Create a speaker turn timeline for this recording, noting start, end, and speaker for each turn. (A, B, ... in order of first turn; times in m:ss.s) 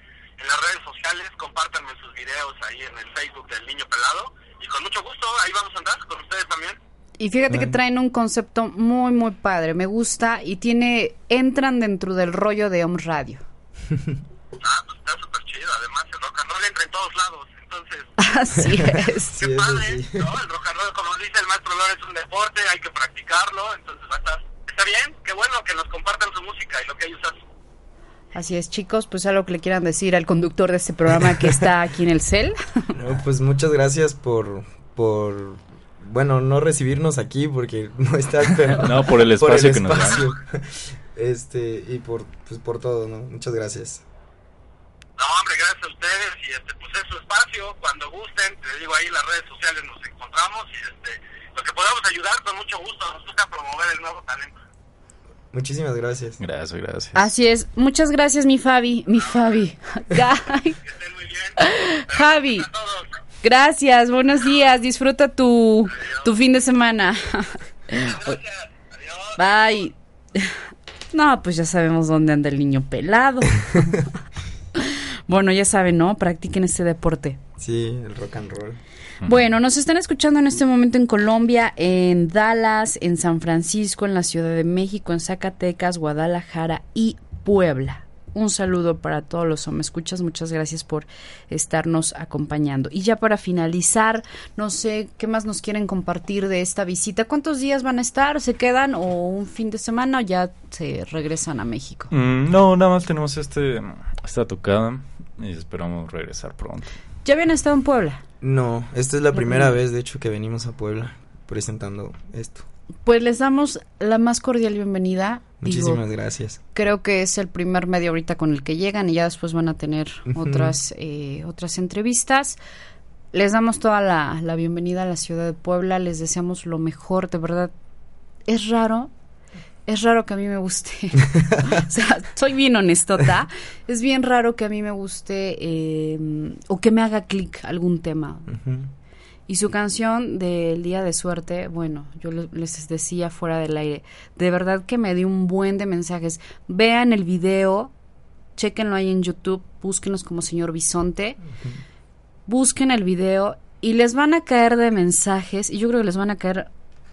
0:00.4-0:06.8 A
0:07.2-0:13.4 B
0:07.5-0:07.8 C
0:14.6-0:18.1 A
0:18.2-0:19.5 B
0:19.4-0:20.4 C
0:19.4-0:27.4 A
0:28.3-0:32.9 B
0:32.9-0:44.0 C
0:38.7-0:40.2 D
0:45.2-0:54.6 A
0:55.5-0:56.4 C
0:56.4-0:57.3 D
0:57.2-1:00.8 B
1:00.9-1:01.6 A
1:01.6-1:02.7 B
1:02.1-1:03.1 A
1:03.4-1:08.4 B
1:08.0-1:09.3 A
1:09.4-1:10.5 B
1:11.1-1:13.6 B
1:14.8-1:17.4 B
1:17.6-1:18.8 C
1:19.3-1:42.1 B
1:42.1-1:46.9 D
1:47.2-1:48.2 B
1:48.4-1:52.7 C
1:49.3-1:49.7 B
1:53.0-1:56.0 B
1:55.6-1:56.6 C
1:56.7-2:02.6 B
2:00.3-2:00.7 C
2:03.3-2:07.7 B
2:08.5-2:09.1 B
2:09.9-2:18.5 B
2:18.5-2:18.9 C
2:19.5-2:27.9 B
2:28.6-2:31.4 B
2:32.5-2:36.7 B